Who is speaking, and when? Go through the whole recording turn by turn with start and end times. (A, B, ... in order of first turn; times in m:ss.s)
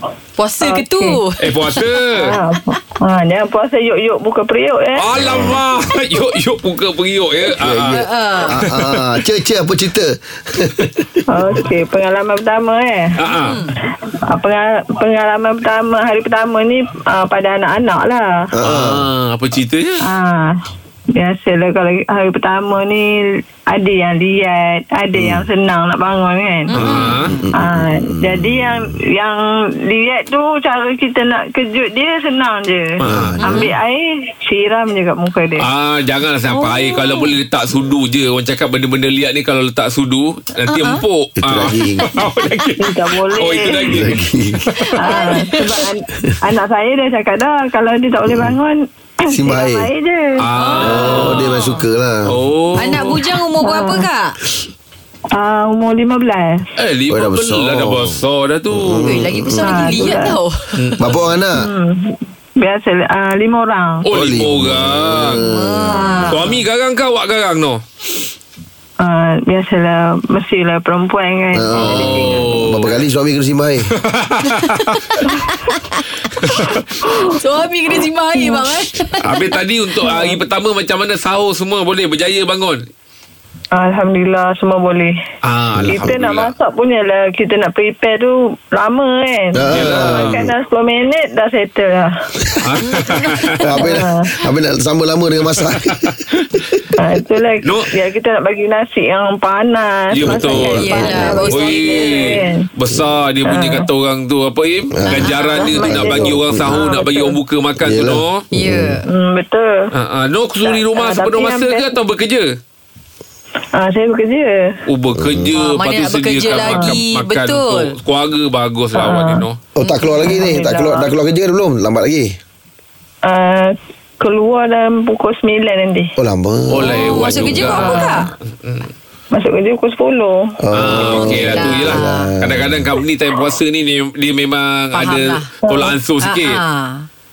0:00.4-0:01.8 A
0:00.6-0:01.2 B
0:01.4-0:02.4 C
0:02.1-0:05.2 B
0:05.0-0:09.2 C
0:05.2-0:05.6 D
0:07.5-0:11.2 D
0:07.9-0:08.6 A
0:11.3-0:13.2 B
0:13.2-0:13.6 C
0:13.4-0:13.7 A
0:14.2-0:18.5 B
0:18.5-0:19.1 D
0:18.6-0:20.0 C
0:20.0-0:20.6 B
0:21.2-0:27.0 B
0:25.2-0:25.4 D
0:26.7-0:27.3 C
0:26.7-0:27.4 A
0:27.3-0:28.8 D
0:27.5-0:35.7 B
0:33.0-0:33.7 C
0:33.0-0:33.7 D
0:35.6-0:45.0 C
0:36.5-0:37.3 A
0:40.7-0:41.0 A
0:41.4-0:42.1 D
0:42.8-0:44.0 B
0:43.9-0:44.6 D
0:44.8-0:45.8 A
0:45.0-0:50.5 B
0:48.2-0:48.6 D
0:49.3-0:49.9 D
0:50.4-0:51.6 C
0:50.5-0:51.8 A
0:50.8-0:52.4 D
0:52.3-0:53.2 C
0:52.8-0:54.4 A
0:53.6-0:54.1 B
0:55.3-0:56.7 B
0:56.8-0:59.2 C
0:57.1-0:58.2 D
0:58.7-1:00.1 D
0:59.0-1:00.8 A
0:59.6-1:00.4 B
1:00.8-1:01.2 C
1:01.0-1:01.7 D
1:01.5-1:04.1 B
1:04.0-1:05.4 C
1:04.1-1:06.0 D
1:05.5-1:06.4 A
1:05.9-1:06.6 B
1:06.3-1:07.8 C
1:09.0-1:12.4 B
1:11.5-1:13.9 D
1:11.7-1:13.0 C
1:13.9-1:15.1 C
1:14.6-1:16.3 A
1:16.4-1:16.8 C
1:17.0-1:17.4 B
1:17.2-1:19.4 A
1:18.4-1:18.7 B
1:19.2-1:22.8 C
1:20.1-1:20.4 B
1:23.7-1:25.1 B
1:25.4-1:26.5 C
1:25.8-1:32.1 B
1:25.8-1:26.1 D
1:29.5-1:30.5 D
1:29.7-1:30.4 C
1:32.6-1:33.7 C
1:32.8-1:34.0 A
1:33.6-1:36.8 D
1:33.8-1:34.3 B
1:35.6-1:36.5 C
1:37.0-1:42.7 B
1:37.6-1:37.9 C
1:40.1-1:40.9 C
1:40.2-1:41.4 D
1:40.7-1:42.4 A
1:41.5-1:48.4 C
1:43.4-1:43.9 B
1:44.9-1:46.8 D
1:45.2-1:45.7 A
1:45.6-1:47.4 B
1:47.8-1:49.0 D
1:48.5-1:49.0 A
1:49.1-1:49.9 B
1:49.9-1:52.6 C
1:50.6-1:52.0 B
1:53.8-1:54.8 B
1:54.9-1:59.6 C
1:55.2-1:55.5 D
1:55.6-1:57.9 A
1:56.7-1:57.0 B
1:59.0-1:59.4 B
1:59.8-2:02.4 D
1:59.8-2:00.4 A
2:00.2-2:01.1 B
2:03.2-2:06.1 B
2:06.2-2:07.7 D
2:06.7-2:08.9 C
2:06.8-2:08.3 A
2:07.8-2:08.3 B
2:09.3-2:10.6 B
2:10.6-2:12.8 D
2:10.7-2:16.6 C
2:11.1-2:12.3 A
2:14.9-2:15.5 A
2:15.6-2:16.0 B
2:16.2-2:17.1 A